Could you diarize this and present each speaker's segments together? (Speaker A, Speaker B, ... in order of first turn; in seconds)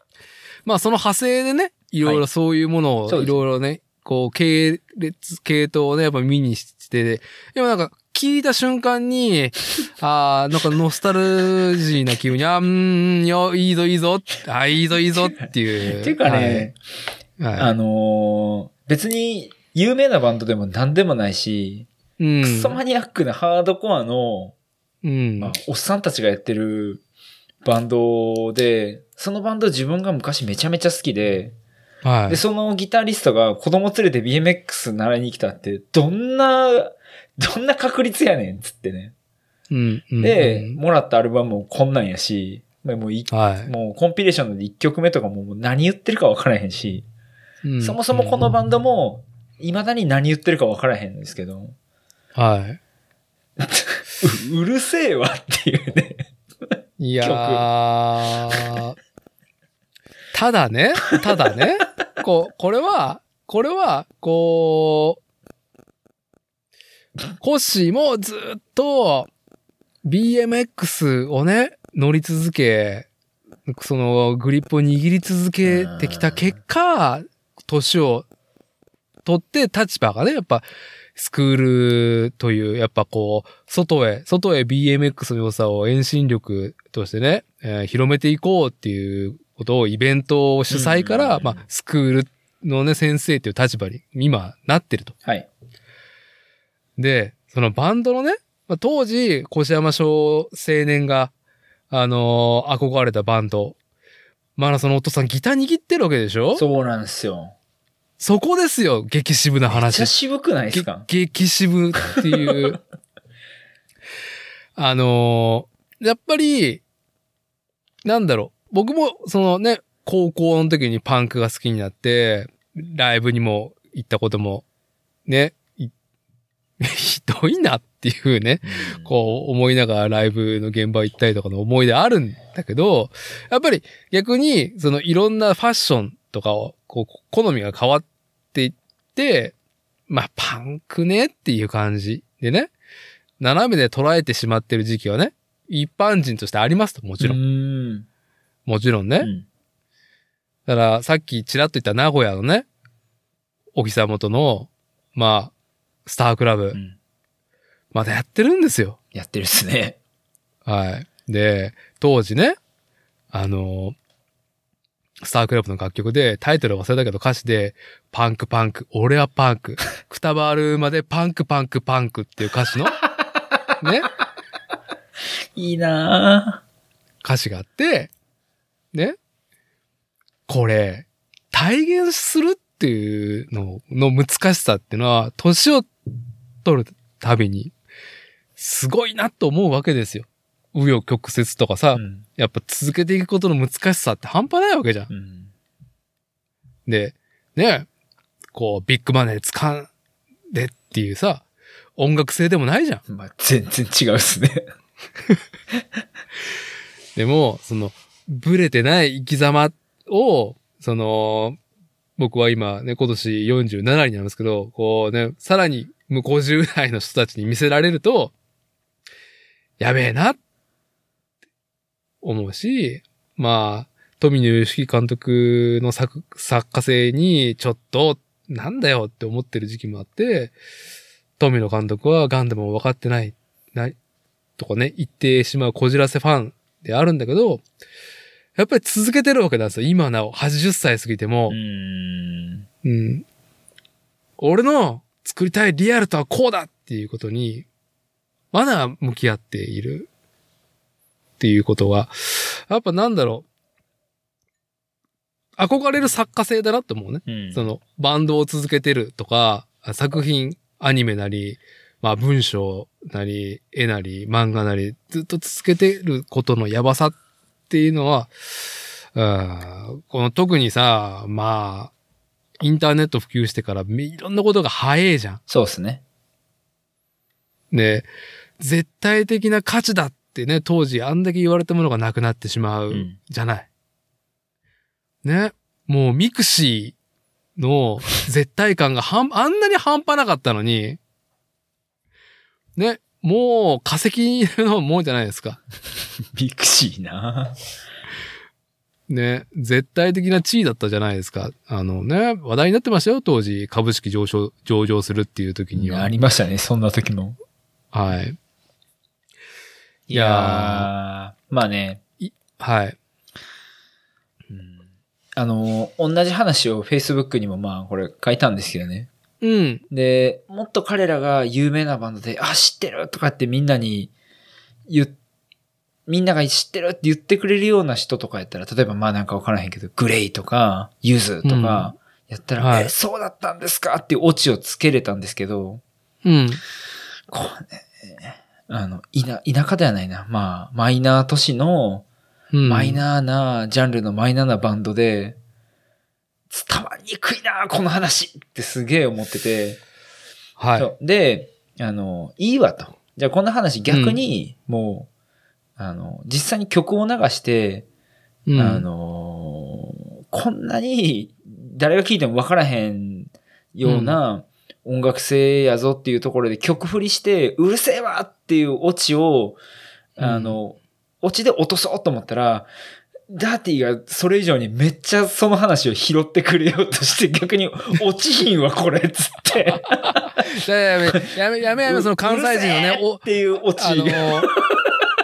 Speaker A: 0.7-16.7, 17.4-17.7, 22.2-22.8, 25.0-25.5, 32.0-32.4, 39.7-40.8, 43.3-43.7, 47.6-48.3, 52.4-52.8, 57.0-59.0, 60.3-65.2, 67.4-69.3, 70.0-73.1, 73.7-78.2, 79.2-80.6, 81.2-95.1, 97.0-101.3, 101.9-103.8, 104.6-106.6, 108.2-110.1, 110.7-112.8, 114.8-116.8, 118.0-124.6, 125.3-125.9, 126.8-139.6, 140.1-142.7, 143.4-147.4, 148.7-149.3, 150.7-152.7, 153.8-155.5, 156.1-156.8, 157.9-159.0, 160.7-162.6, 163.3-164.0, 165.2-173.0, 173.8-174.1, 177.2-178.1, 180.5-185.9, 186.6-187.7, 188.6-195.1, 196.9-197.9, 198.5-199.9, 200.5-201.4, 202.0-203.0, 207.2-211.6, 212.2-218.3, 219.8-220.4, 222.2-230.5, 231.4-233.9, 234.6-237.6, 238.6-241.6, 242.8-243.2, 244.4-247.7, 248.5-250.1, 251.4-253.5, 255.6-267.2, 267.7-268.3, 269.1-271.9, 272.6-275.4, 277.7-278.1, 278.6-283.7, 285.2-286.9, 287.6-291.0, 292.8-295.6, 299.1-306.1, 307.9-308.4, 310.1-310.9, 312.2-313.0, 319.4-319.8, 331.4-331.9, 332.6-332.9, 336.2-336.6, 342.5-343.0, 350.6-350.9, 353.9-354.2, 358.5-358.9, 363.8-364.2, 370.2-370.6, 380.1-383.2, 383.8-384.5
Speaker B: 3.1-3.4, 15.1-16.8, 17.6-21.9, 22.4-24.6, 25.4-27.0, 27.6-31.6, 32.3-39.1, 40.2-47.0, 47.8-51.8, 53.6-56.3, 57.2-57.7, 75.7-76.5, 90.7-91.6, 106.5-107.5, 109.7-111.1, 128.6-129.1, 147.2-148.1, 149.2-149.5, 159.1-160.0, 175.6-176.6, 191.9-192.2, 195.1-195.5, 203.1-204.6, 241.5-242.7, 257.3-257.7, 275.5-276.0, 296.4-297.6, 305.7-307.4, 310.1-312.0, 314.5-314.9, 315.4-319.1, 319.9-324.1, 324.9-325.1, 326.1-335.8, 337.3-342.1, 342.6-345.4, 346.5-349.8, 350.8-355.1, 355.8-357.9, 358.6-369.6, 370.2-372.7, 373.3-380.2, 381.9-385.1